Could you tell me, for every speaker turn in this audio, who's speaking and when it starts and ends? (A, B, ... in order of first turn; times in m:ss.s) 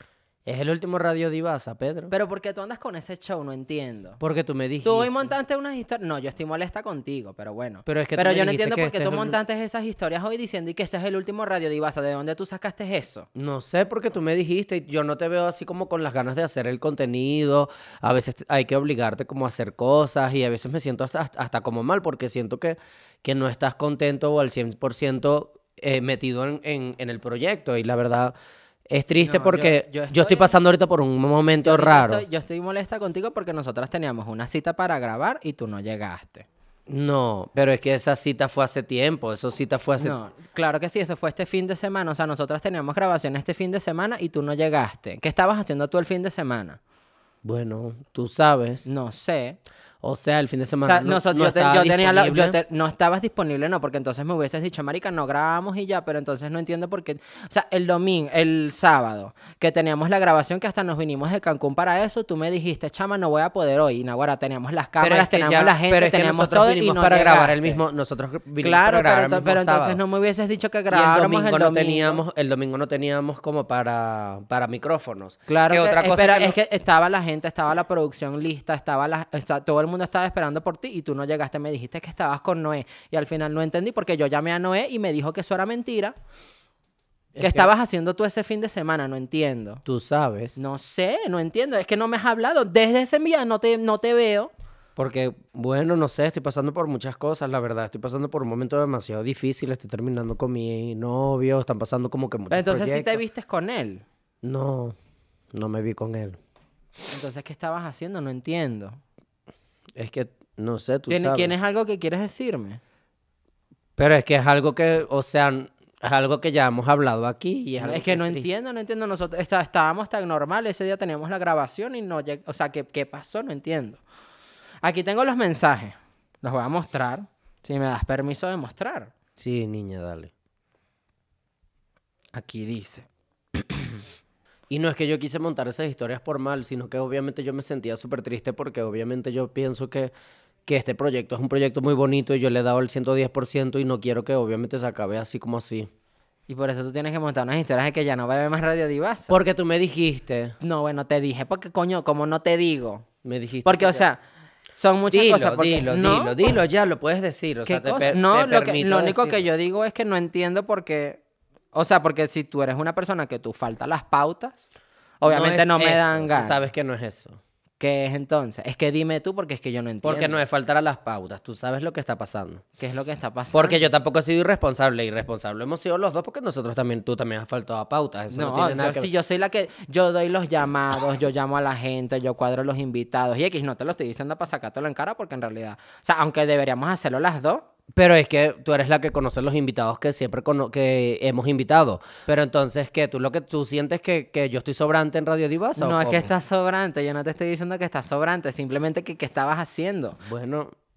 0:00.4-0:02.1 A
0:02.1-0:04.2 B
0:04.2-0:05.1 A
0:04.8-0:13.3 B
0:07.8-0:09.4 A
0:13.3-0:28.3 A
0:28.9-0:32.2 A
0:29.2-0:30.5 B
0:31.6-0:36.4 B
0:36.9-0:40.1 A
0:40.0-0:46.8 B
0:47.4-0:48.9 A
0:48.8-0:49.6 B
0:50.0-0:52.6 A
0:50.8-1:07.8 B
1:05.0-1:10.0 A
1:08.6-1:12.2 B
1:10.9-1:16.6 A
1:15.5-1:26.1 B
1:27.3-1:27.7 A
1:27.4-1:29.8 B
1:29.8-1:30.6 A
1:30.6-1:34.5 B
1:35.0-1:43.2 A
1:42.5-1:44.0 B
1:44.4-1:45.0 A
1:45.5-1:46.4 A
1:47.1-1:49.0 B
1:50.0-1:51.5 A
1:51.1-1:52.8 B
1:54.0-1:58.4 A
1:57.8-2:04.0 B
2:04.8-2:09.1 B
2:09.4-2:10.3 A
2:12.3-2:13.9 B
2:14.7-2:20.1 A
2:20.7-2:25.9 A
2:26.5-2:29.4 B
2:29.3-2:30.6 A
2:30.6-2:33.0 B
2:33.2-2:34.0 A
2:33.6-2:34.2 B
2:34.7-2:36.4 B
2:35.1-2:39.4 A
2:37.6-2:41.2 B
2:41.7-2:44.6 B
2:45.2-2:46.6 B
2:45.3-2:47.4 A
2:47.8-2:50.4 B
2:50.0-2:52.6 A
2:52.8-2:53.8 B
2:53.5-2:59.1 A
2:58.3-3:07.6 B
3:07.9-3:16.3 A
3:15.8-3:20.2 B
3:20.2-3:20.7 A